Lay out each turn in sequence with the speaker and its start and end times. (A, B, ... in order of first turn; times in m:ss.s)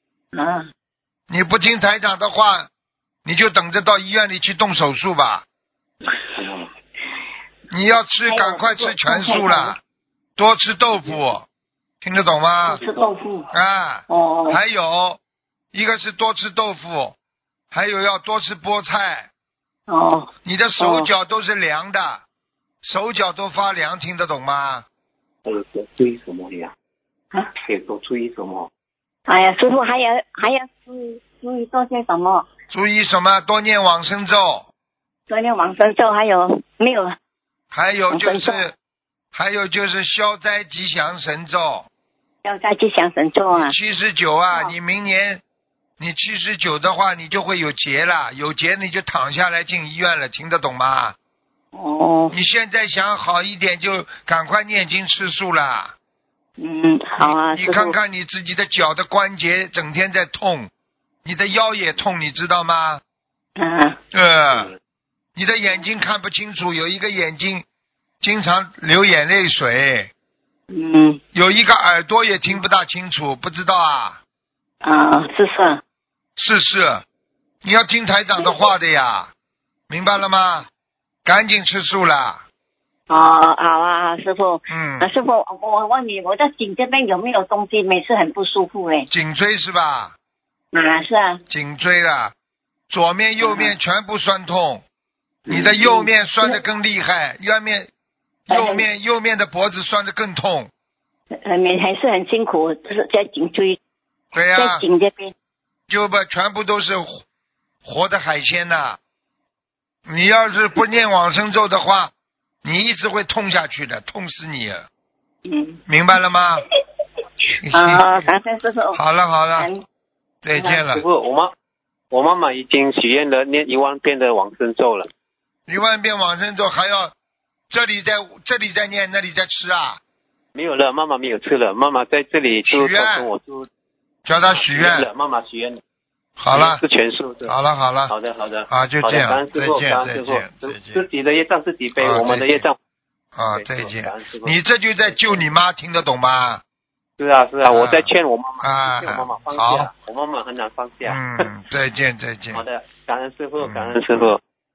0:00.3-0:00.7 A
0:01.3-0:02.7 B
0:03.2-0:05.4 B
0:06.4-0:06.7 C
0:07.7-0:09.8 B
0:08.2-0:09.8 A
0:10.4-0:11.5 B
0:12.0-0:12.8 B
0:12.7-0:13.1 C
0:12.7-0:13.5 A
0:13.5-0:15.2 B
0:14.1-0:14.6 A
0:15.7-0:17.2 B
0:17.7-0:19.3 B
0:19.9-0:21.1 A
0:20.4-0:22.2 B
0:22.8-0:24.8 B
0:25.5-0:26.7 C
0:27.6-0:28.7 C
0:29.3-0:32.5 A
0:32.7-0:34.7 B
0:35.3-0:37.2 A
0:37.7-0:38.8 B
0:38.1-0:38.7 A
0:39.3-0:41.9 B
0:42.4-0:43.8 A
0:43.5-0:45.4 B
0:46.0-0:51.2 B
0:51.7-0:52.3 A
0:52.3-0:56.0 B
0:56.6-0:58.0 A
0:57.2-1:00.7 B
1:01.2-1:03.0 B
1:03.6-1:04.0 A
1:04.1-1:04.7 B
1:05.4-1:07.6 B
1:08.2-1:10.1 B
1:10.7-1:11.2 A
1:11.3-1:14.2 B
1:14.8-1:15.8 A
1:16.4-1:17.0 B
1:17.6-1:19.3 B
1:19.9-1:20.7 B
1:21.2-1:22.4 B
1:23.1-1:29.1 A
1:24.7-1:25.1 B
1:29.1-1:30.2 B
1:30.7-1:31.4 A
1:31.5-1:32.3 B
1:32.9-1:34.8 B
1:33.4-1:33.7 A
1:35.5-1:36.6 A
1:35.5-1:37.9 B
1:38.5-1:38.8 A
1:38.5-1:40.7 B
1:41.4-1:43.8 A
1:44.3-1:44.8 B
1:44.6-1:45.3 A
1:45.9-1:47.2 B
1:47.8-1:49.0 B
1:50.1-1:52.1 B
1:52.6-1:54.9 B
1:55.4-1:55.8 A
1:55.9-1:56.6 B
1:57.5-1:58.3 B
1:57.7-1:59.0 A
1:58.9-1:59.7 B
1:59.6-1:59.8 A
2:00.4-2:01.0 B
2:00.6-2:01.5 C
2:02.1-2:05.1 C
2:05.7-2:07.1 B
2:07.7-2:10.0 B
2:10.6-2:13.7 C
2:12.7-2:13.3 B
2:14.3-2:15.1 B
2:14.5-2:15.8 C
2:16.4-2:16.8 B
2:16.5-2:17.5 C
2:17.4-2:18.1 B
2:18.1-2:22.8 C
2:18.7-2:21.1 B
2:22.0-2:22.6 B
2:23.4-2:26.6 B
2:23.5-2:25.4 C
2:27.2-2:31.4 C
2:27.6-2:29.9 B
2:31.1-2:32.6 B
2:32.5-2:34.4 C
2:33.6-2:34.0 B